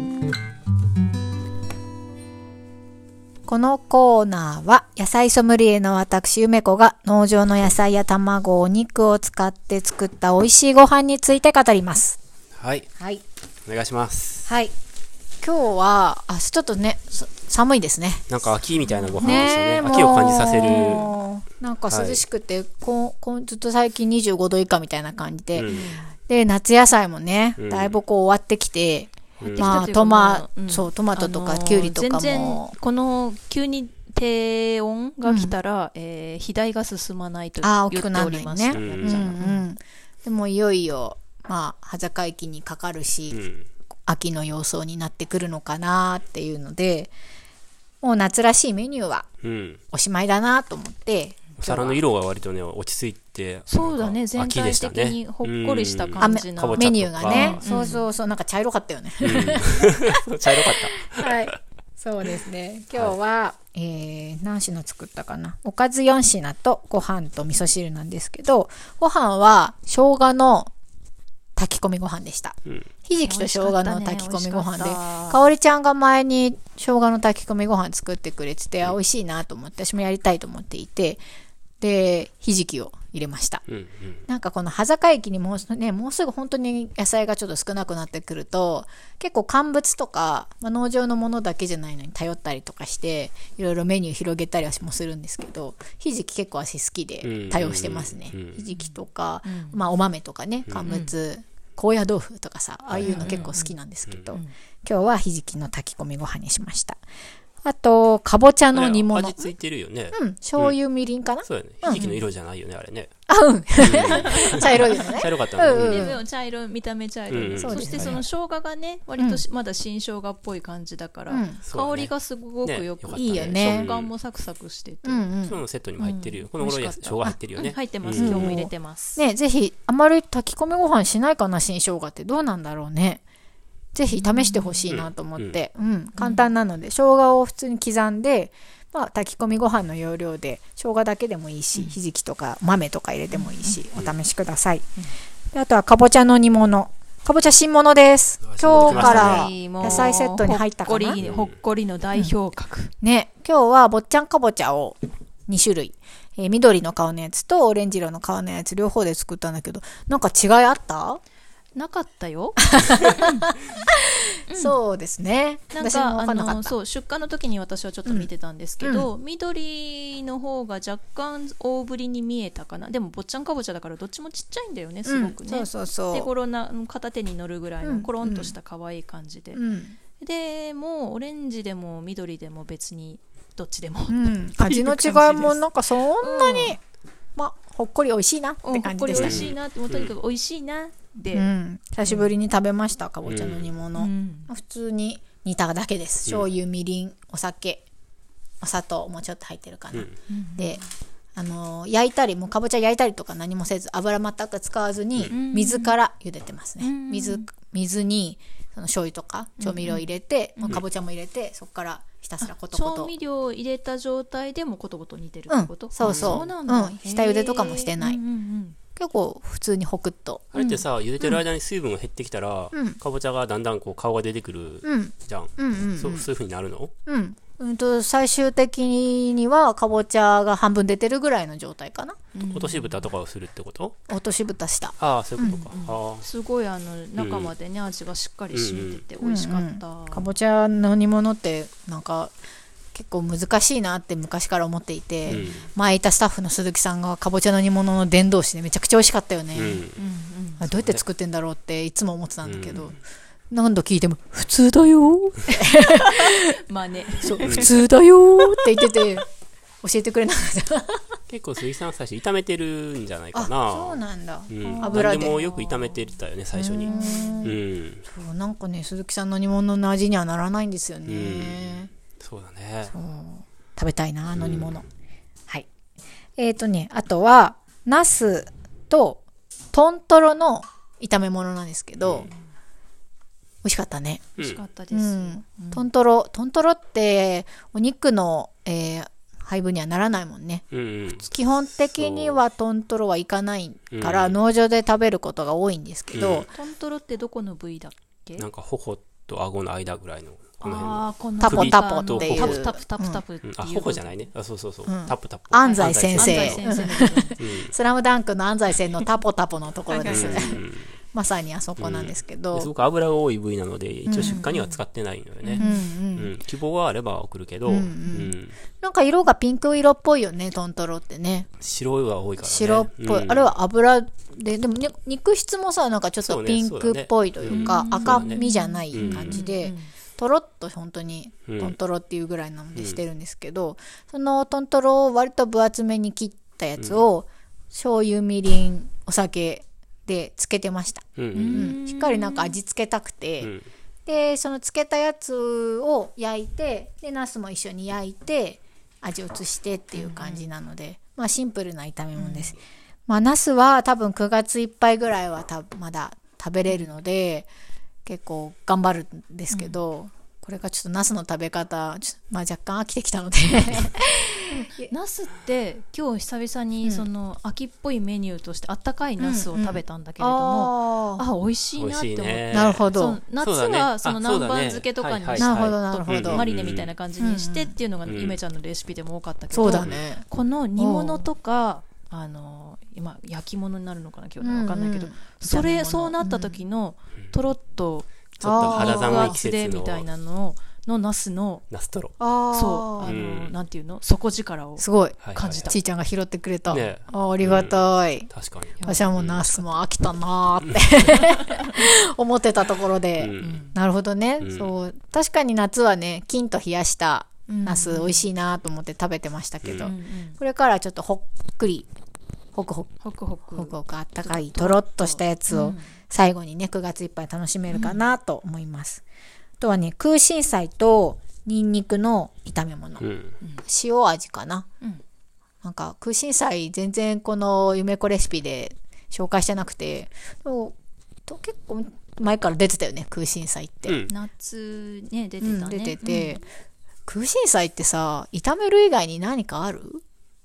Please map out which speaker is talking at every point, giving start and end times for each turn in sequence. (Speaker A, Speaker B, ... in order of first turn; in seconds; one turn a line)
Speaker A: 3.5-12.2
Speaker B: 12.5-12.9
Speaker A: 12.9-13.2
Speaker B: 13.7-14.5
Speaker A: 14.4-14.7
Speaker A: 15.4-18.3
Speaker B: 18.3-21.1
Speaker C: 19.1-19.6
Speaker A: 19.2-25.7
Speaker C: 20.6-21.1
Speaker B: 21.9-22.2
Speaker B: 25.5-25.9
Speaker C: 25.6-26.1
Speaker A: 26.3-32.7
Speaker B: 27.6-27.9
Speaker B: 29.4-29.9
Speaker C: 29.5-39.6
Speaker A: 35.2-35.5
Speaker A: 37.6-43.4
Speaker B: 38.7-39.4
Speaker B: 43.3-43.7
Speaker A: 44.1-47.1
Speaker A: 48.0-49.3
Speaker B: 49.4-49.8
Speaker A: 49.9-52.0
Speaker B: 51.6-57.9
Speaker C: 53.7-58.0
Speaker A: 56.2-70.7
Speaker B: 59.2-61.5
Speaker A: 71.6-81.2
Speaker C: 73.2-75.4
Speaker A: 81.8-83.6
Speaker B: 83.7-84.2
Speaker A: 84.2-107.0
Speaker B: 97.2-98.6
Speaker C: 98.7-99.8
Speaker C: 100.8-101.1
Speaker B: 102.9-103.5
Speaker C: 103.0-103.7
Speaker B: 104.1-104.3
Speaker A: 107.6-109.5
Speaker B: 108.7-110.8
Speaker A: 110.1-112.1
Speaker B: 111.4-113.1
Speaker C: 111.9-112.2
Speaker A: 113.3-116.2
Speaker B: 113.8-116.2
Speaker C: 114.1-115.2
Speaker C: 115.7-125.3
Speaker B: 117.3-118.2
Speaker A: 117.5-118.2
Speaker A: 121.3-121.6
Speaker B: 121.6-122.1
Speaker B: 122.6-124.1
Speaker A: 123.1-123.9
Speaker A: 125.0-125.6
Speaker B: 125.4-128.6
Speaker C: 126.0-129.2
Speaker A: 128.1-133.2
Speaker A: 133.9-144.8
Speaker C: 134.1-134.8
Speaker B: 134.9-135.6
Speaker C: 136.2-136.4
Speaker C: 143.3-143.8
Speaker A: 145.5-151.2
Speaker B: 148.4-150.1
Speaker C: 148.8-152.9
Speaker B: 151.2-151.5
Speaker A: 153.0-155.0
Speaker A: 155.5-161.2
Speaker C: 161.7-163.5
Speaker A: 162.7-163.4
Speaker C: 164.5-164.8
Speaker A: 164.5-166.7
Speaker C: 165.7-179.6
Speaker A: 168.8-169.1
Speaker A: 175.1-176.3
Speaker A: 177.8-178.5
Speaker A: 179.5-180.0
Speaker C: 180.2-185.6
Speaker A: 184.1-186.8
Speaker C: 186.2-186.8
Speaker A: 187.3-189.5
Speaker C: 188.6-191.5
Speaker B: 189.1-190.1
Speaker A: 191.3-197.8
Speaker C: 192.1-192.3
Speaker B: 193.2-193.7
Speaker C: 194.0-194.5
Speaker A: 198.6-200.8
Speaker C: 200.3-200.8
Speaker A: 201.3-213.1
Speaker C: 205.3-206.0
Speaker C: 206.8-207.4
Speaker C: 209.6-210.1
Speaker C: 210.6-210.8
Speaker C: 212.4-218.8
Speaker A: 215.5-218.2
Speaker B: 216.0-216.4
Speaker A: 218.9-220.5
Speaker B: 220.5-226.9
Speaker C: 220.5-221.4
Speaker A: 222.7-223.0
Speaker A: 224.8-226.3
Speaker A: 227.1-232.2
Speaker C: 232.3-233.1
Speaker B: 232.5-233.9
Speaker A: 234.1-235.6
Speaker B: 235.0-236.2
Speaker C: 235.6-240.3
Speaker B: 237.2-237.5
Speaker B: 238.5-239.0
Speaker A: 239.2-242.3
Speaker A: 242.9-249.8
Speaker C: 245.3-245.6
Speaker B: 245.3-245.7
Speaker B: 249.5-250.0
Speaker C: 249.9-250.6
Speaker A: 250.6-252.9
Speaker B: 250.7-251.0
Speaker B: 252.4-253.0
Speaker A: 253.5-256.6
Speaker C: 255.5-257.8
Speaker A: 257.2-259.2
Speaker C: 258.4-259.0
Speaker A: 259.8-261.0
Speaker B: 261.3-268.0
Speaker A: 263.3-265.4
Speaker C: 264.6-267.5
Speaker A: 266.8-271.9
Speaker B: 271.1-272.9
Speaker A: 272.9-274.8
Speaker B: 274.4-274.8
Speaker A: 276.4-282.3
Speaker B: 282.0-282.3
Speaker A: 283.6-284.3
Speaker C: 284.4-285.9
Speaker A: 284.9-290.6
Speaker B: 290.7-292.4
Speaker A: 291.2-296.5
Speaker B: 293.9-294.4
Speaker B: 296.1-296.5
Speaker C: 296.5-298.5
Speaker B: 298.4-302.7
Speaker C: 300.6-304.2
Speaker A: 301.4-303.2
Speaker B: 303.4-306.7
Speaker A: 304.9-312.7
Speaker C: 305.6-307.4
Speaker B: 307.4-307.7
Speaker C: 309.9-310.6
Speaker B: 310.0-310.9
Speaker B: 311.8-318.6
Speaker A: 314.1-314.4
Speaker C: 314.2-314.8
Speaker C: 315.4-315.8
Speaker A: 315.6-316.4
Speaker A: 317.6-321.5
Speaker B: 321.6-323.5
Speaker A: 322.4-343.5
Speaker B: 326.2-328.4
Speaker C: 327.5-329.9
Speaker B: 328.9-329.4
Speaker B: 331.5-331.8
Speaker B: 332.7-333.0
Speaker B: 341.1-341.7
Speaker C: 341.3-342.5
Speaker B: 343.4-343.7
Speaker A: 344.1-357.5
Speaker C: 349.9-350.5
Speaker C: 352.1-352.6
Speaker A: 358.0-364.9
Speaker C: 359.5-359.8
Speaker C: 364.5-391.6
Speaker A: 369.2-371.2
Speaker B: 371.8-376.9
Speaker A: 372.5-373.2
Speaker A: 375.4-376.4
Speaker A: 377.2-377.7
Speaker B: 378.1-378.4
Speaker A: 379.5-380.2
Speaker B: 379.6-380.0
Speaker A: 380.8-381.3
Speaker A: 384.4-386.6
Speaker B: 388.4-390.1
Speaker A: 388.4-389.4
Speaker B: 391.7-392.1
Speaker A: 392.2-393.1
Speaker C: 392.5-395.8
Speaker B: 393.0-393.5
Speaker A: 394.8-398.3
Speaker B: 395.2-395.7
Speaker B: 396.7-399.4
Speaker C: 398.8-399.8
Speaker A: 398.8-411.9
Speaker C: 401.2-401.7
Speaker B: 403.2-403.6
Speaker C: 403.4-403.7
Speaker B: 404.4-404.7
Speaker C: 407.5-408.2
Speaker B: 409.6-409.9
Speaker C: 409.8-410.4
Speaker A: 412.5-412.9
Speaker C: 413.0-415.9
Speaker A: 413.5-419.0
Speaker C: 417.7-418.0
Speaker A: 419.6-423.1
Speaker B: 423.0-423.4
Speaker A: 423.6-424.6
Speaker A: 425.6-430.7
Speaker A: 431.3-434.0
Speaker B: 433.9-434.1
Speaker C: 434.1-436.4
Speaker A: 435.4-436.4
Speaker A: 437.1-440.0